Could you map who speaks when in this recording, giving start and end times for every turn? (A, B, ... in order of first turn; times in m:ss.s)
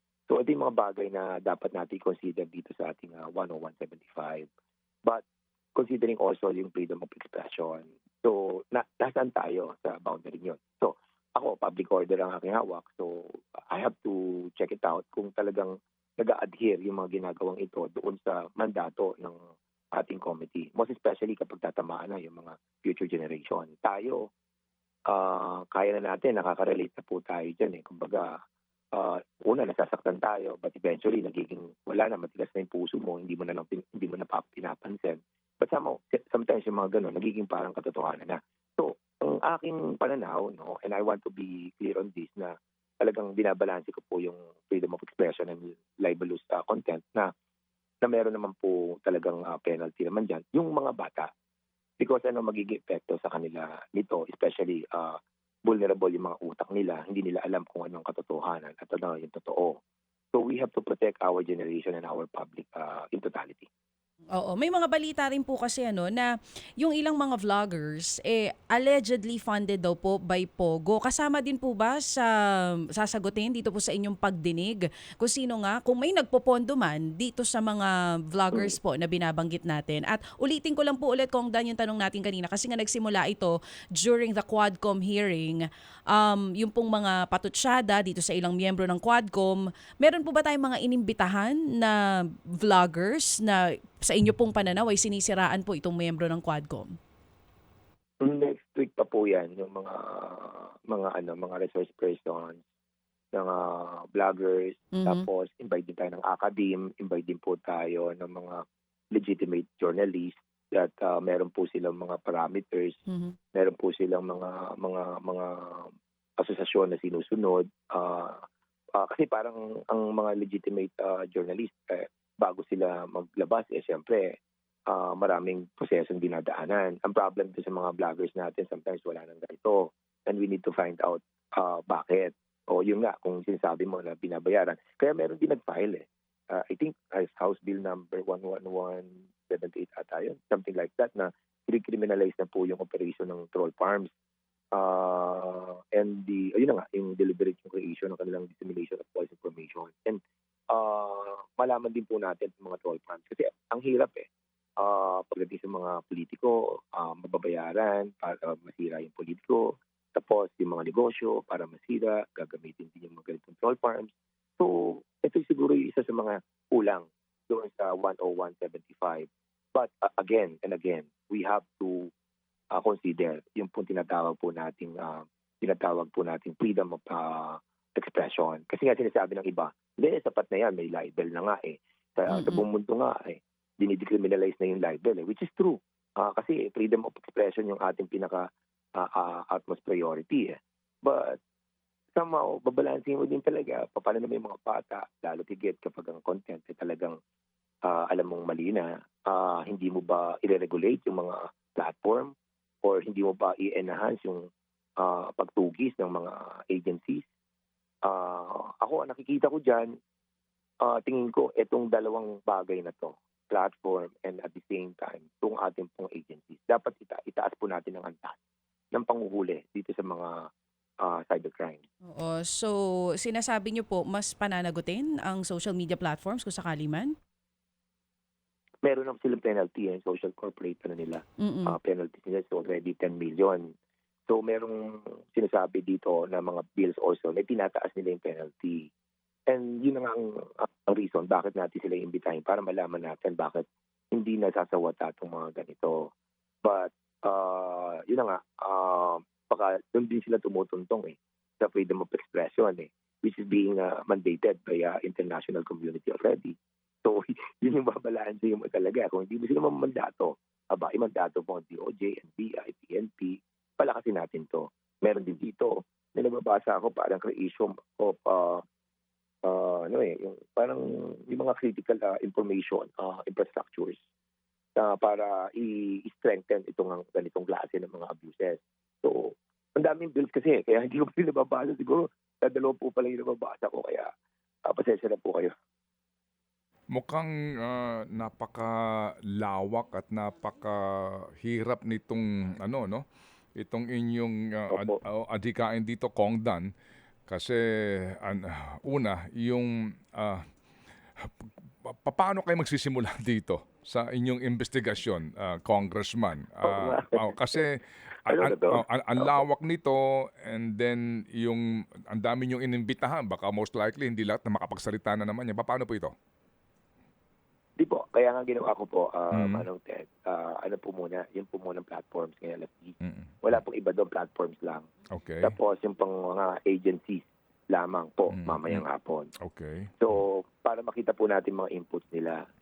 0:00.3-0:04.5 A
0:05.8-0:19.4 A
0:20.0-0:24.3 A
0:25.1-0:28.3 A
0:28.9-0:47.3 A
0:48.0-0:51.3 A
0:52.0-0:59.8 A
1:00.3-1:03.7 A
1:04.4-1:12.3 B
1:13.0-1:32.0 B
1:18.5-1:18.8 A
1:32.6-1:36.9 B
1:38.2-1:42.6 A
1:43.3-1:48.6 A
1:45.0-1:45.2 B
1:49.2-1:53.0 A
1:53.1-1:53.4 B
1:53.5-1:58.4 A
1:59.0-2:04.3 A
2:04.9-2:24.1 A
2:24.7-2:34.3 A
2:34.8-2:52.1 A
2:52.7-3:11.4 A
3:02.3-3:02.6 B
3:12.2-3:17.2 A
3:17.9-3:24.5 A
3:25.0-3:27.2 A
3:28.0-3:29.9 A
3:30.8-3:38.4 A
3:38.9-3:40.3 A
3:41.0-3:41.8 A
3:42.1-3:47.1 B
3:48.8-3:53.7 A
3:51.4-3:51.8 B
3:54.3-3:58.9 A
3:59.5-4:06.0 A
4:06.6-4:28.6 A
4:29.4-4:34.0 A
4:34.8-4:44.1 A
4:44.7-4:45.5 A
4:46.9-4:53.0 C
4:53.6-4:56.7 C
4:54.7-4:55.0 A
4:57.3-5:00.4 C
5:01.2-5:16.1 C
5:06.6-5:07.6 A
5:08.3-5:09.4 A
5:17.8-5:24.9 A
5:19.3-5:19.7 C
5:23.0-5:23.6 C
5:25.1-5:25.5 C
5:25.4-5:29.3 A
5:28.3-5:28.8 C
5:29.4-5:30.2 C
5:30.0-5:32.4 A